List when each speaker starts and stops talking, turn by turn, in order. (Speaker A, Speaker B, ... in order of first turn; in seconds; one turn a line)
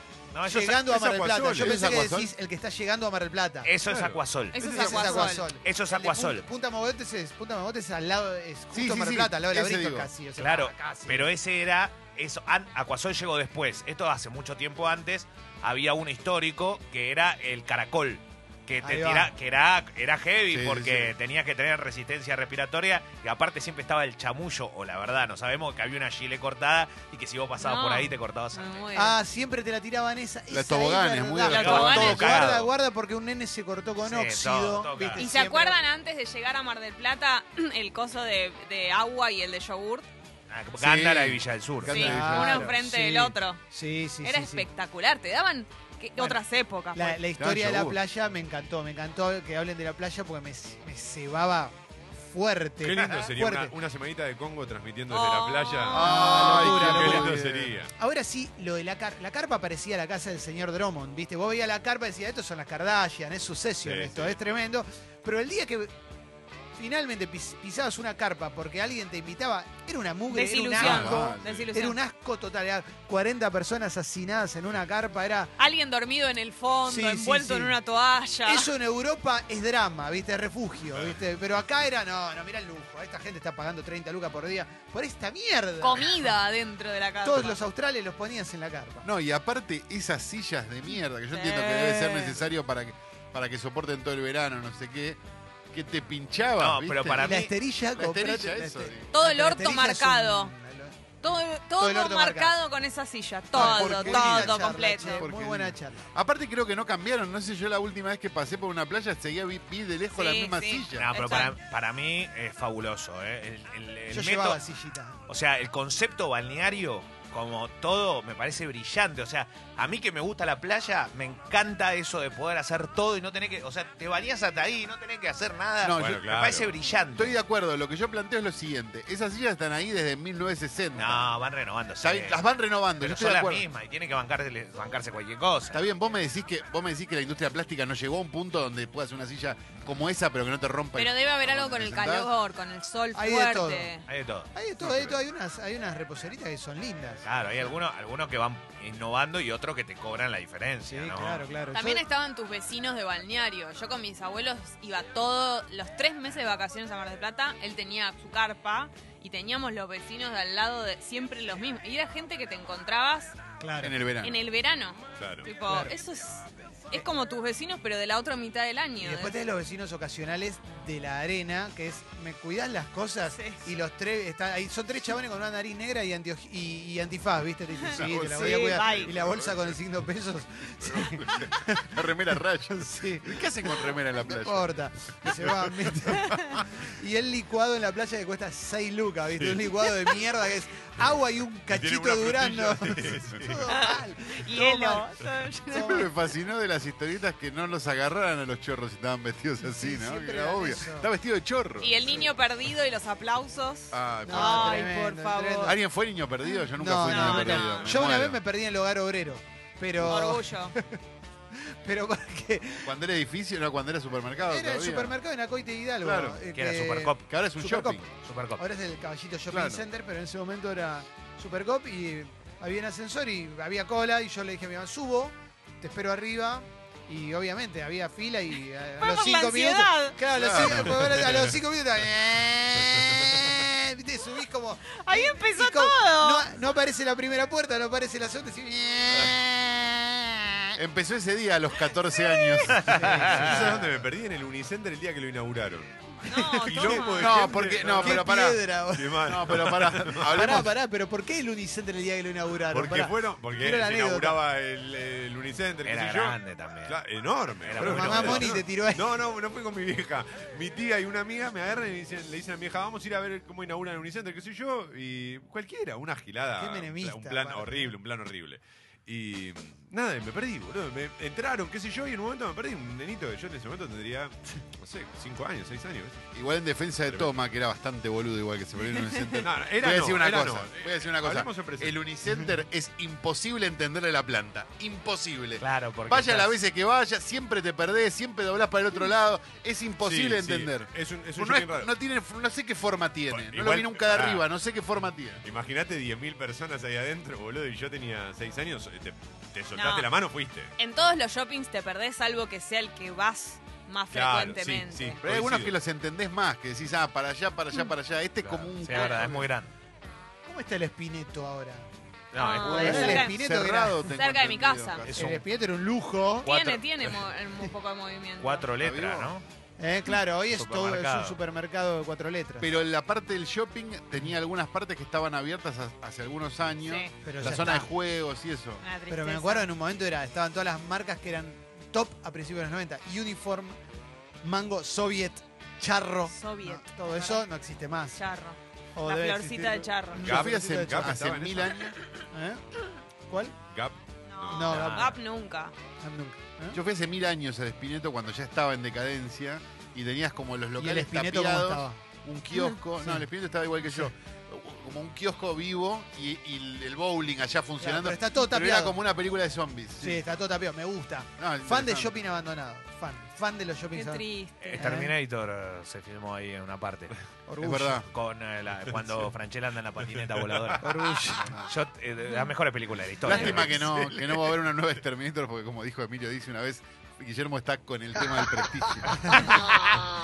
Speaker A: 0.3-0.8
Speaker B: 0.5-3.7
Speaker C: 0.7-1.9
Speaker D: 1.6-2.3
Speaker A: 3.6-6.5
Speaker C: 3.8-4.2
Speaker E: 4.5-5.5
Speaker B: 4.5-11.3
Speaker D: 8.7-10.1
Speaker A: 10.3-28.8
Speaker B: 18.8-19.3
Speaker D: 20.5-21.1
Speaker E: 27.6-29.2
Speaker B: 28.9-35.8
Speaker D: 30.5-32.4
Speaker E: 31.4-32.4
Speaker A: 31.5-32.7
Speaker A: 34.0-35.3
Speaker E: 35.2-40.1
Speaker A: 40.5-42.0
Speaker D: 40.8-42.7
Speaker E: 41.8-43.7
Speaker B: 41.9-44.7
Speaker E: 44.2-47.2
Speaker B: 46.2-53.7
Speaker D: 47.4-48.0
Speaker C: 52.8-57.9
Speaker E: 55.1-56.7
Speaker B: 55.9-57.4
Speaker D: 55.9-57.7
Speaker B: 57.9-65.9
Speaker C: 63.8-64.5
Speaker B: 66.8-75.5
Speaker E: 70.3-72.0
Speaker D: 70.8-71.6
Speaker E: 75.6-78.7
Speaker B: 76.8-77.8
Speaker B: 78.4-86.4
Speaker C: 80.8-81.5
Speaker E: 85.8-87.6
Speaker B: 87.2-89.0
Speaker D: 89.0-99.1
Speaker E: 91.3-92.4
Speaker A: 96.6-97.5
Speaker B: 97.2-102.5
Speaker E: 99.1-100.5
Speaker E: 101.2-105.3
Speaker B: 103.5-106.0
Speaker D: 103.6-104.6
Speaker D: 105.1-111.1
Speaker E: 110.1-111.5
Speaker A: 110.9-114.6
Speaker B: 114.1-115.2
Speaker A: 115.3-127.4
Speaker D: 125.8-126.2
Speaker C: 126.1-126.7
Speaker D: 127.2-131.3
Speaker A: 130.9-135.8
Speaker D: 132.0-133.7
Speaker D: 135.7-142.3
Speaker E: 140.9-144.0
Speaker B: 143.1-143.9
Speaker A: 144.1-144.5
Speaker B: 144.5-147.8
Speaker A: 147.2-151.4
Speaker B: 150.9-152.0
Speaker E: 151.7-163.3
Speaker B: 163.6-164.0
Speaker D: 163.8-164.3
Speaker E: 164.2-169.4
Speaker C: 165.2-165.5
Speaker B: 165.7-166.0
Speaker B: 169.0-195.1
Speaker E: 173.3-173.7
Speaker D: 178.0-179.7
Speaker E: 178.2-179.1
Speaker C: 178.9-179.6
Speaker D: 180.8-184.7
Speaker C: 189.4-189.7
Speaker C: 191.0-193.7
Speaker E: 193.7-196.1
Speaker B: 195.7-196.1
Speaker D: 195.7-202.0
Speaker B: 199.6-201.1
Speaker E: 201.8-205.8
Speaker D: 203.9-204.9
Speaker B: 204.2-205.8
Speaker D: 205.6-208.4
Speaker E: 206.4-207.9
Speaker B: 206.7-211.0
Speaker E: 210.0-210.7
Speaker B: 211.5-213.0
Speaker D: 212.8-215.1
Speaker B: 214.5-218.0
Speaker D: 216.0-216.4
Speaker A: 216.5-217.3
Speaker D: 217.3-218.1
Speaker A: 218.2-218.6
Speaker B: 218.6-240.7
Speaker D: 219.5-219.8
Speaker E: 229.0-230.2
Speaker D: 230.3-231.3
Speaker C: 230.5-231.5
Speaker C: 232.8-233.5
Speaker E: 235.0-236.5
Speaker C: 239.1-239.4
Speaker D: 240.8-242.8
Speaker E: 242.1-242.7
Speaker A: 242.7-243.7
Speaker B: 242.9-243.9
Speaker C: 243.2-250.4
Speaker E: 246.2-247.4
Speaker B: 246.3-247.2
Speaker D: 247.2-248.7
Speaker B: 247.9-254.4
Speaker D: 249.2-250.7
Speaker C: 252.7-276.2
Speaker A: 255.8-257.0
Speaker A: 257.6-258.6
Speaker B: 257.8-259.2
Speaker B: 266.6-268.0
Speaker D: 276.3-295.4
Speaker C: 279.4-282.0
Speaker A: 285.6-286.5
Speaker C: 290.0-291.9
Speaker C: 293.3-294.4
Speaker C: 295.4-300.7
Speaker E: 299.7-300.1
Speaker E: 300.8-305.2
Speaker C: 304.1-305.8
Speaker D: 305.2-309.5
Speaker A: 308.4-309.7
Speaker E: 308.9-309.2
Speaker B: 310.4-311.9
Speaker A: 312.3-313.1
Speaker E: 312.3-313.4
Speaker D: 312.6-315.3
Speaker B: 312.6-314.1
Speaker E: 314.1-315.1
Speaker A: 315.0-315.4
Speaker B: 315.1-316.5
Speaker E: 316.4-318.7
Speaker A: 316.4-316.8
Speaker A: 318.4-319.4
Speaker D: 318.8-319.4
Speaker B: 319.8-322.7
Speaker A: 320.5-321.4
Speaker D: 322.6-328.8
Speaker E: 326.8-327.1
Speaker B: 327.2-327.9
Speaker E: 328.8-329.7
Speaker B: 329.1-333.8
Speaker B: 334.4-338.2
Speaker E: 336.3-337.5
Speaker E: 338.1-340.4
Speaker B: 338.9-341.2
Speaker C: 340.1-341.9
Speaker D: 340.3-341.9
Speaker B: 342.3-342.6
Speaker B: 343.3-343.6
Speaker C: 343.7-345.0
Speaker E: 344.3-345.7
Speaker B: 344.5-345.2
Speaker B: 346.0-346.8
Speaker D: 346.7-360.2
Speaker B: 350.8-352.0
Speaker B: 352.9-353.3
Speaker B: 353.8-354.1
Speaker B: 357.8-359.0
Speaker B: 360.0-364.2
Speaker D: 361.4-362.2
Speaker E: 363.9-364.9
Speaker A: 364.6-367.1
Speaker B: 364.8-365.1
Speaker B: 367.5-368.0
Speaker D: 367.6-368.1
Speaker A: 368.1-373.7
Speaker C: 368.9-369.3
Speaker B: 370.8-371.7
Speaker E: 372.2-372.5
Speaker D: 373.2-379.3
Speaker E: 373.3-373.7
Speaker C: 373.3-374.5
Speaker B: 379.1-379.7